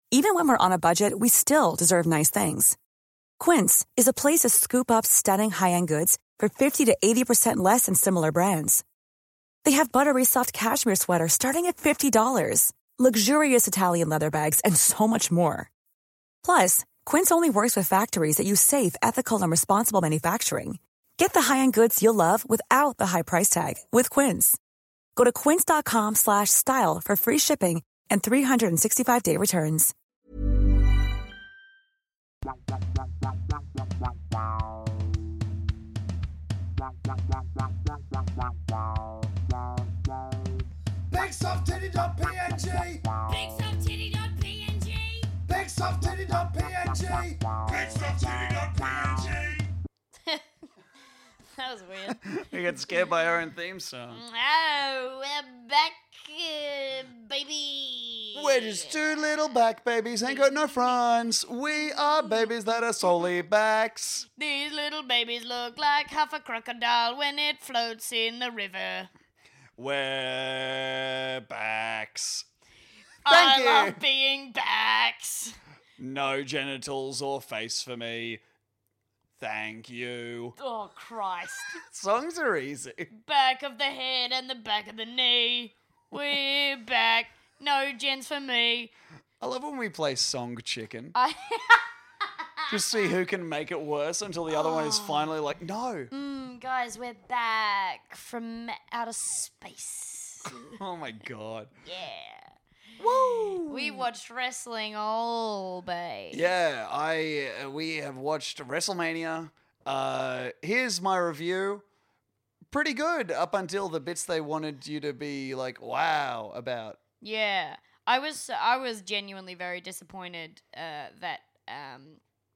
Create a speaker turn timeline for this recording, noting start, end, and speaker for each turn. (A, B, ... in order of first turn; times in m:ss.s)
0:00.1-0:02.8 A
0:03.4-0:08.8 A
0:09.6-0:15.7 A
0:16.4-0:24.6 A
0:25.2-0:29.9 A
0:41.1-0:43.1 B
0:43.3-0:45.3 C
0:45.5-0:49.7 B
0:51.6-0:52.2 C
0:52.1-0:54.2 B
0:52.8-0:53.0 C
0:54.1-0:59.3 C
0:58.4-1:04.3 B
1:00.2-1:01.0 C
1:01.7-1:02.5 C
1:04.4-1:09.1 C
1:09.8-1:12.5 B
1:13.2-1:15.6 C
1:13.3-1:14.0 B
1:16.0-1:18.4 B
1:19.4-1:20.6 B
1:20.6-1:21.8 C
1:21.8-1:23.1 B
1:23.1-1:28.9 C
1:29.4-1:31.2 B
1:31.2-1:31.9 C
1:32.4-1:32.7 C
1:32.7-1:36.1 B
1:34.5-1:35.3 C
1:36.1-1:40.8 C
1:40.5-1:41.7 B
1:41.8-1:42.5 C
1:43.0-1:44.1 B
1:43.7-1:46.4 C
1:46.3-1:51.8 B
1:52.7-1:57.0 B
1:57.2-2:02.2 C